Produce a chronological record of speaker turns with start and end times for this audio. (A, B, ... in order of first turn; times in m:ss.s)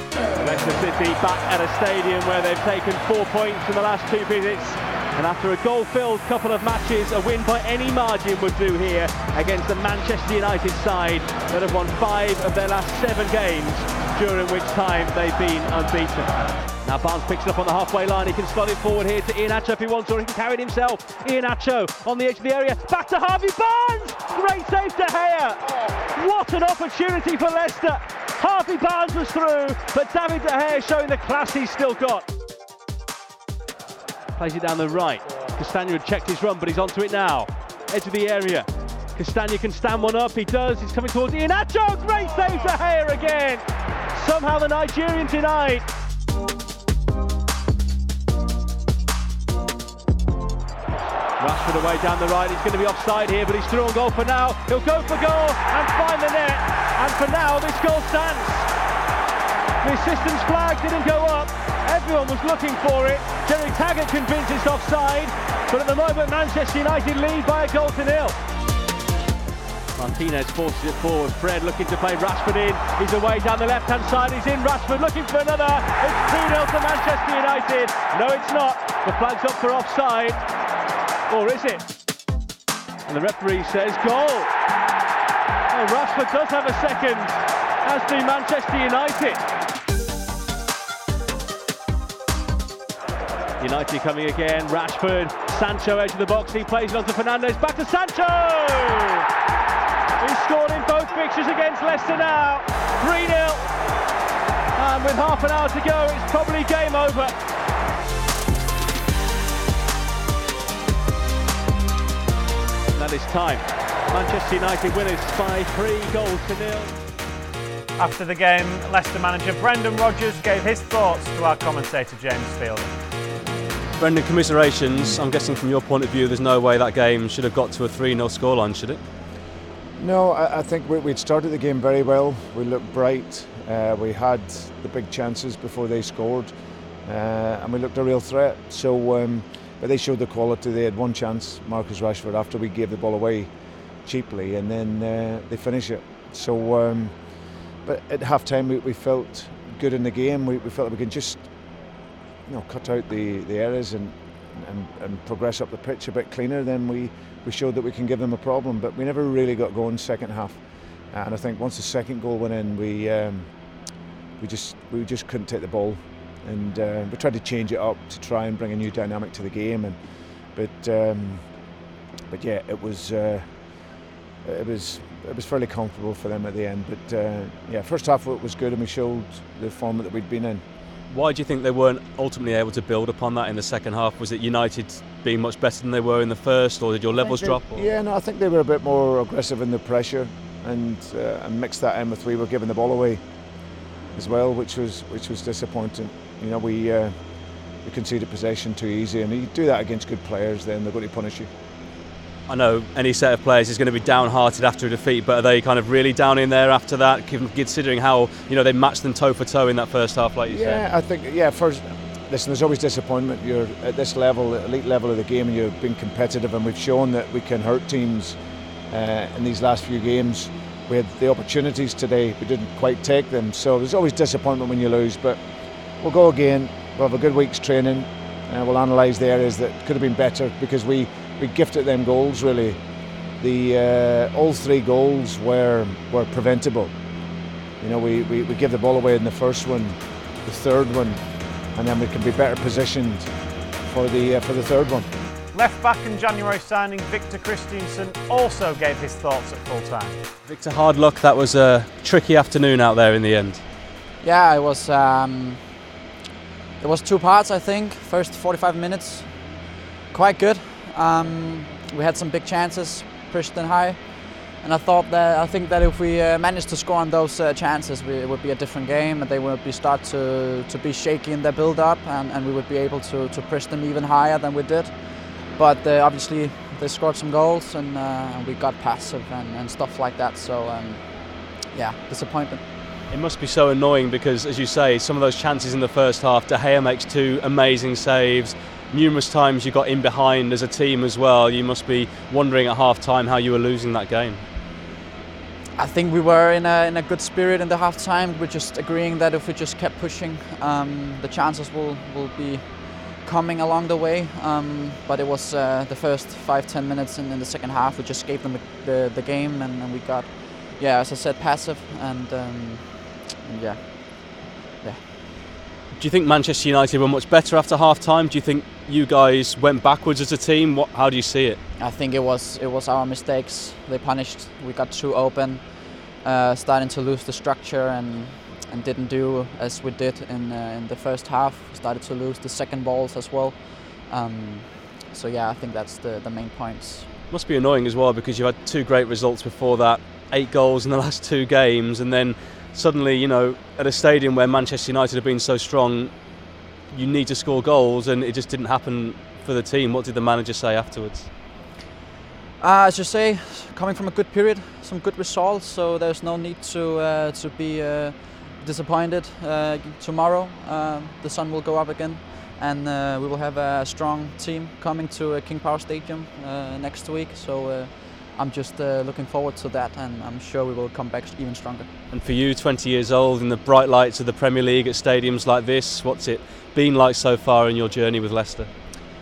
0:00.4-0:16.3 A
0:16.8-0:32.2 A
0:34.3-0:45.9 A
0:51.4-0:58.7 A
0:59.8-1:08.4 A
1:10.0-1:20.4 A
1:21.3-1:21.8 A
1:23.0-1:24.5 A
1:25.7-1:27.3 A
1:27.8-1:29.4 A
1:33.6-1:39.3 A
1:40.2-1:43.7 A
1:44.7-1:47.3 A
1:52.9-1:57.0 A
1:58.0-2:02.9 B
2:04.0-2:09.0 C
2:04.9-2:05.2 D
2:10.0-2:31.7 D
2:32.4-2:51.7 D
2:52.3-3:00.6 D
3:01.1-3:07.9 C
3:07.2-3:13.2 D
3:14.1-3:21.5 D
3:22.5-3:30.8 C
3:30.5-3:45.4 D
3:46.0-3:52.8 D
3:53.4-3:56.9 D
3:57.8-4:01.2 D
4:01.7-4:03.3 D
4:03.8-4:05.1 D
4:05.5-4:10.2 B
4:10.4-4:13.6 C
4:14.2-4:15.9 E
4:16.8-4:42.6 E
4:43.1-4:54.4 C
4:55.8-5:15.0 E
5:16.0-5:21.6 C
5:21.8-5:37.1 E
5:37.3-5:46.2 C
5:46.9-5:51.3 C
5:52.6-6:11.9 E
6:12.1-6:18.7 C